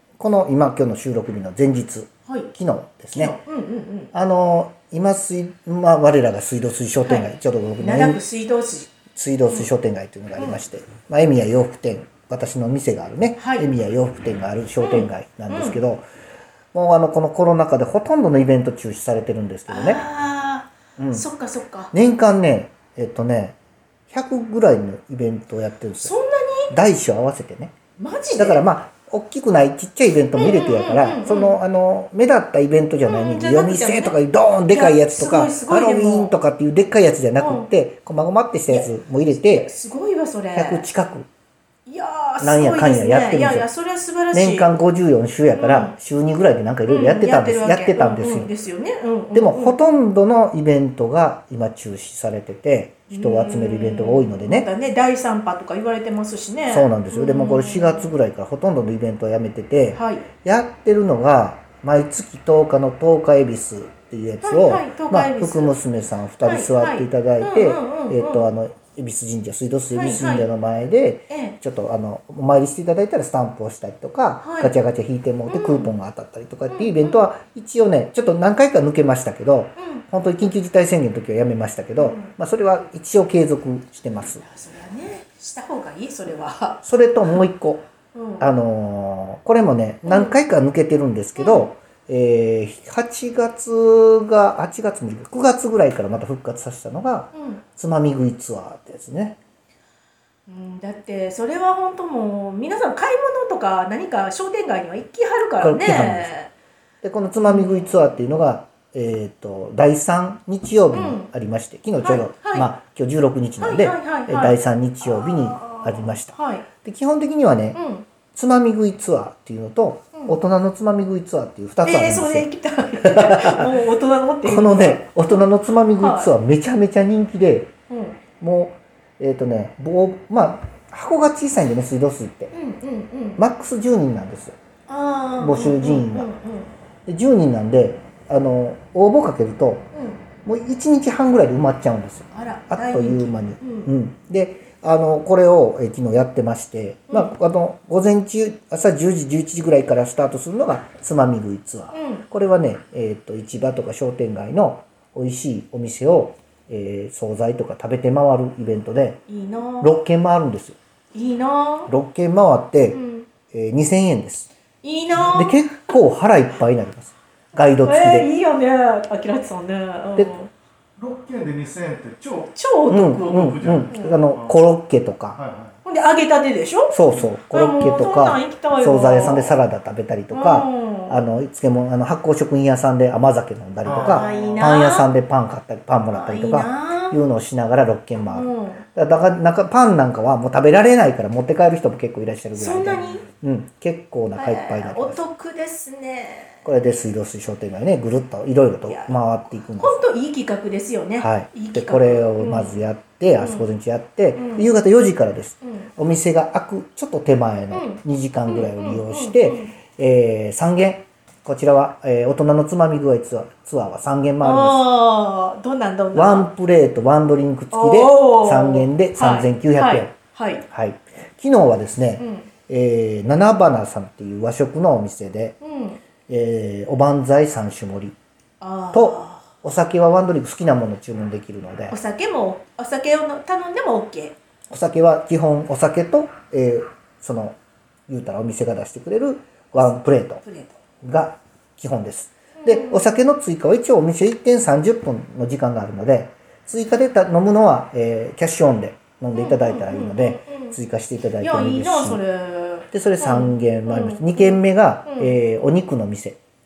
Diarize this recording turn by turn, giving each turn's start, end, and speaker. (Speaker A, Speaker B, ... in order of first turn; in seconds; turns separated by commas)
Speaker A: 0.2-3.4, Speaker B: 3.1-4.1, Speaker A: 4.1-8.2, Speaker B: 7.8-8.9, Speaker A: 9.1-16.0, Speaker B: 13.4-13.7, Speaker B: 14.8-15.8, Speaker A: 16.7-20.0, Speaker B: 19.7-21.9, Speaker A: 21.0-21.3, Speaker A: 21.9-23.6, Speaker A: 24.1-26.1, Speaker B: 26.0-26.7, Speaker A: 26.7-27.8, Speaker B: 28.0-28.6, Speaker A: 28.4-39.7, Speaker B: 30.3-31.6, Speaker B: 33.0-34.2, Speaker B: 34.7-36.3, Speaker B: 37.4-37.7, Speaker B: 38.7-40.9, Speaker A: 40.5-41.3, Speaker B: 41.9-44.7, Speaker A: 42.4-43.7, Speaker A: 44.3-48.5, Speaker B: 45.5-45.9, Speaker B: 46.9-49.8, Speaker A: 49.3-54.7, Speaker B: 53.1-58.1, Speaker A: 56.7-84.4, Speaker B: 59.9-60.3, Speaker B: 64.4-65.7, Speaker B: 66.4-68.5, Speaker B: 69.9-70.5, Speaker B: 71.3-71.6, Speaker B: 74.4-74.7, Speaker B: 75.5-75.9, Speaker B: 76.7-77.2, Speaker B: 79.8-80.0, Speaker B: 82.0-82.3, Speaker B: 84.4-87.4, Speaker A: 86.8-87.8, Speaker B: 88.1-88.5, Speaker A: 88.4-99.4, Speaker B: 90.0-90.3, Speaker B: 91.4-91.7, Speaker B: 97.3-97.6, Speaker B: 100.5-106.5, Speaker A: 105.6-106.3, Speaker A: 107.0-117.8, Speaker B: 107.4-108.1, Speaker B: 110.9-111.3, Speaker B: 112.0-112.7, Speaker B: 113.6-116.7, Speaker B: 117.7-118.1, Speaker A: 118.3-122.5, Speaker B: 121.8-125.4, Speaker A: 123.0-123.7, Speaker A: 124.4-127.7, Speaker B: 126.0-126.3, Speaker B: 127.9-128.2, Speaker A: 128.4-132.5, Speaker B: 132.5-133.4, Speaker A: 133.4-134.6, Speaker B: 134.9-136.7, Speaker A: 135.4-136.3, Speaker A: 137.1-139.9, Speaker B: 139.9-140.2, Speaker A: 140.4-159.2, Speaker B: 142.3-143.9, Speaker B: 151.9-152.2, Speaker B: 159.3-159.9, Speaker A: 159.8-160.8, Speaker B: 161.1-161.9, Speaker A: 161.9-164.5, Speaker B: 162.9-163.3, Speaker B: 164.8-165.9, Speaker A: 165.2-168.3, Speaker B: 167.8-170.5, Speaker C: 171.0-172.5, Speaker B: 172.5-174.2, Speaker A: 172.9-175.4, Speaker C: 173.1-174.5, Speaker C: 175.4-175.7, Speaker B: 175.8-179.7, Speaker A: 176.9-195.2, Speaker B: 180.3-181.2, Speaker C: 183.8-184.6, Speaker B: 183.9-185.1, Speaker B: 186.1-187.2, Speaker B: 188.3-188.8, Speaker B: 192.5-193.2, Speaker B: 194.3-196.7, Speaker A: 196.6-200.0, Speaker B: 198.9-202.8, Speaker A: 201.2-214.9, Speaker B: 203.4-203.7, Speaker B: 204.3-204.7, Speaker B: 205.6-205.9, Speaker B: 207.7-209.7, Speaker B: 214.4-216.5, Speaker A: 216.1-220.1, Speaker B: 217.7-220.7, Speaker A: 220.7-225.6, Speaker B: 222.2-222.5, Speaker B: 225.6-226.0, Speaker A: 226.3-228.2, Speaker B: 228.6-229.5, Speaker A: 228.9-231.9, Speaker B: 231.9-234.3, Speaker A: 234.7-237.6, Speaker A: 238.1-240.4, Speaker B: 239.7-240.8, Speaker A: 241.0-252.2, Speaker B: 242.6-243.1, Speaker B: 249.3-250.8, Speaker B: 251.4-255.3, Speaker A: 252.9-256.4